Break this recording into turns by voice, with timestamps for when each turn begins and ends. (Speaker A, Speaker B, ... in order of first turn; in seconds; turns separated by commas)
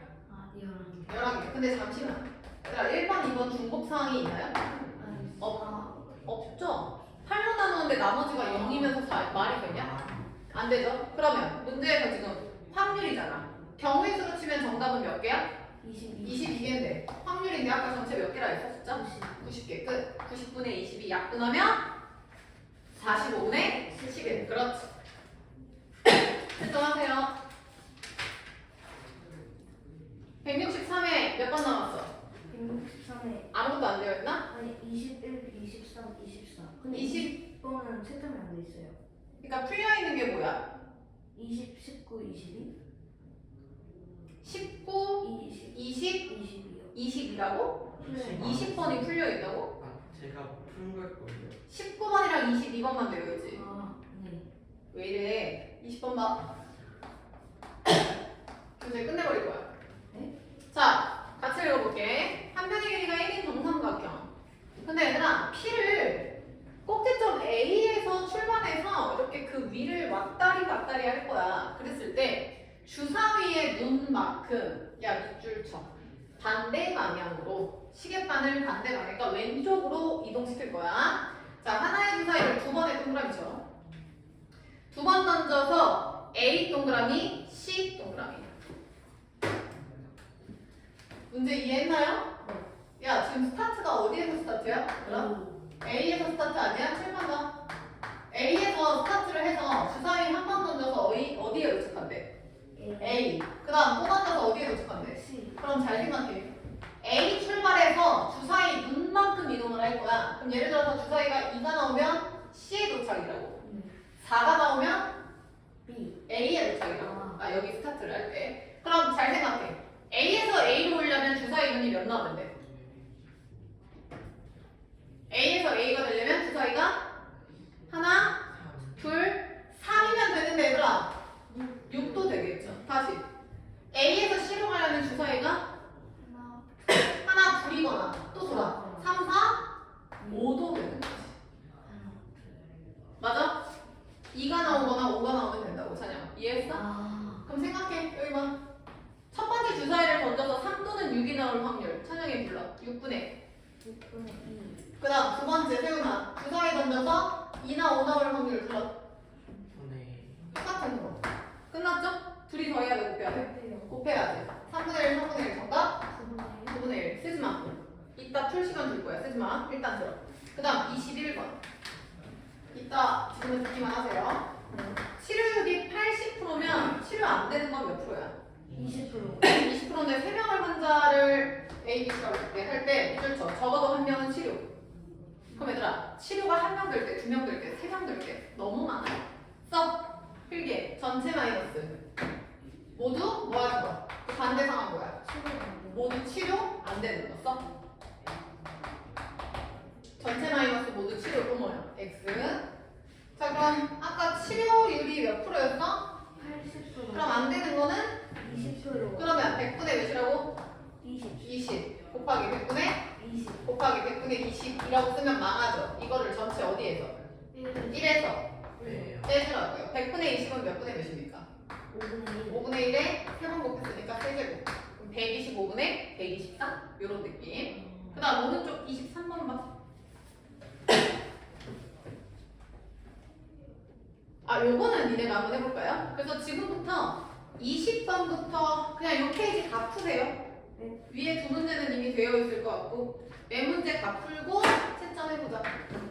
Speaker A: 0.3-1.2, Speaker B: 1.1-4.6, Speaker A: 5.0-6.0, Speaker B: 6.2-10.0, Speaker A: 8.3-9.0, Speaker C: 9.4-10.2, Speaker A: 10.0-10.3, Speaker B: 10.5-15.5, Speaker A: 15.8-16.8, Speaker B: 16.2-21.8, Speaker A: 18.9-19.4, Speaker A: 22.9-24.6, Speaker B: 23.0-24.9, Speaker B: 26.1-27.3, Speaker B: 30.4-32.1, Speaker A: 32.5-33.5, Speaker B: 33.5-34.4, Speaker A: 34.5-39.0, Speaker B: 36.9-37.3, Speaker B: 39.4-40.6, Speaker A: 41.3-42.7, Speaker B: 44.4-46.2, Speaker A: 45.2-46.9, Speaker B: 46.9-47.8, Speaker A: 48.0-48.5, Speaker C: 48.0-49.1, Speaker B: 48.3-49.7, Speaker C: 49.7-51.6, Speaker B: 51.7-53.6, Speaker A: 53.5-54.5, Speaker B: 54.9-56.5, Speaker B: 58.8-59.6, Speaker B: 60.7-64.3, Speaker B: 64.8-66.3, Speaker B: 66.8-83.6, Speaker B: 84.9-88.5, Speaker B: 91.3-92.3, Speaker B: 93.0-95.3, Speaker A: 95.0-95.6, Speaker B: 95.8-97.5, Speaker B: 98.3-102.3, Speaker A: 102.8-103.3, Speaker B: 103.0-113.6, Speaker A: 105.0-105.6, Speaker A: 113.6-114.0, Speaker B: 114.2-115.1, Speaker A: 115.9-116.2, Speaker B: 116.3-122.5, Speaker A: 116.8-117.4, Speaker B: 125.3-127.0, Speaker B: 127.9-128.4, Speaker C: 128.5-129.2, Speaker B: 128.9-131.1, Speaker A: 131.5-132.8, Speaker B: 131.9-133.2, Speaker B: 133.9-135.6, Speaker A: 136.2-136.6, Speaker B: 136.9-139.6, Speaker A: 138.4-139.2, Speaker A: 140.2-140.6, Speaker B: 140.3-141.3, Speaker A: 141.8-142.4, Speaker B: 143.2-143.6, Speaker B: 144.3-146.8, Speaker A: 146.7-147.5, Speaker B: 147.4-148.6, Speaker B: 149.3-153.3, Speaker A: 153.8-154.9, Speaker B: 155.0-158.9, Speaker C: 159.7-160.6, Speaker B: 160.6-166.0, Speaker A: 163.2-163.9, Speaker A: 166.1-166.9, Speaker B: 166.7-171.6, Speaker B: 172.7-174.5, Speaker A: 174.7-175.0, Speaker B: 175.2-178.3, Speaker C: 178.7-179.4, Speaker A: 178.7-179.6, Speaker B: 179.4-184.7, Speaker A: 185.5-185.8, Speaker B: 185.5-191.9, Speaker B: 192.9-195.2, Speaker A: 195.2-196.2, Speaker B: 195.9-197.6, Speaker B: 200.2-202.6, Speaker B: 203.4-206.1, Speaker A: 206.3-207.6, Speaker B: 207.1-208.2, Speaker A: 208.4-209.6, Speaker B: 209.2-210.6, Speaker A: 211.0-211.6, Speaker B: 211.4-213.1, Speaker A: 213.1-213.7, Speaker B: 213.6-217.2, Speaker A: 217.5-218.2, Speaker B: 217.9-218.4, Speaker A: 218.8-219.1, Speaker C: 218.8-219.3, Speaker B: 219.2-221.5, Speaker A: 221.9-222.6, Speaker B: 222.5-229.7, Speaker A: 227.7-228.2, Speaker B: 234.5-240.4, Speaker B: 241.1-245.8